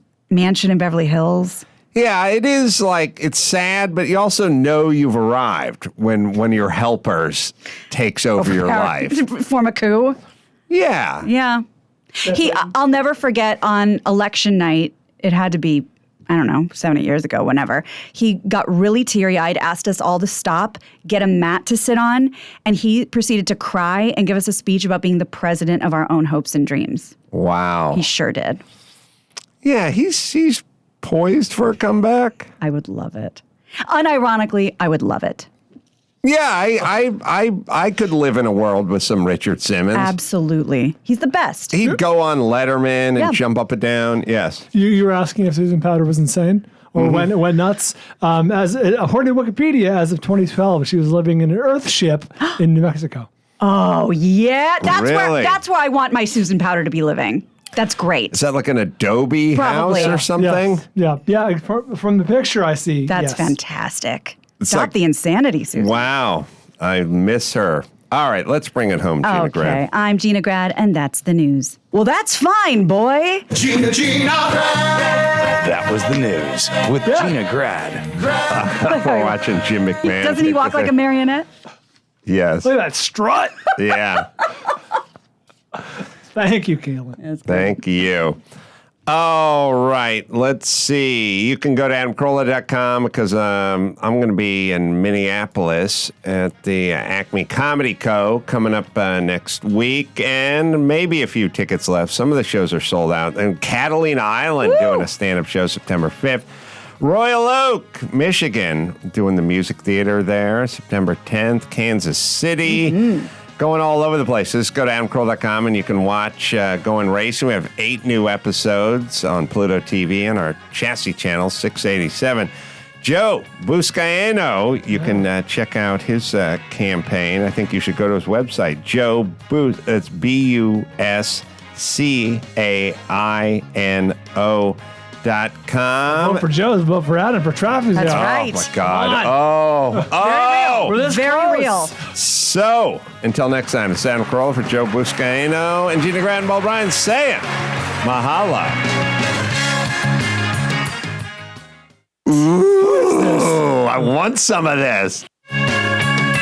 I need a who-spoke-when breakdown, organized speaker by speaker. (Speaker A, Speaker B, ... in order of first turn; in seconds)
Speaker A: 0.3-1.6, 8.4-10.2, 11.2-11.6, 12.2-27.2, 27.9-28.6, 32.6-35.5, 39.9-41.8, 53.6-58.4, 59.5-60.2, 63.1-66.1, 69.2-73.9, 78.9-79.3, 80.0-81.5, 87.2-87.7, 104.6-105.1, 137.9-138.7, 140.9-141.9
Speaker B: 1.9-9.2, 10.7-11.3, 27.3-28.1, 29.6-32.5, 36.2-40.1, 41.7-44.6, 47.0-47.3, 54.8-55.6, 58.3-60.8, 64.6-64.9, 65.8-69.8, 78.5-80.9, 82.3-82.7, 83.8-84.3, 87.5-88.4, 89.1-106.5, 107.0-122.5, 123.0-136.4, 138.1-141.0, 142.1-147.5, 148.0-148.8, 152.3-155.3
Speaker C: 44.7-53.3, 60.0-63.5, 77.0-77.4, 82.6-83.7, 86.3-87.2, 136.1-139.3, 140.0-142.0
Speaker D: 74.1-74.5, 75.5-78.3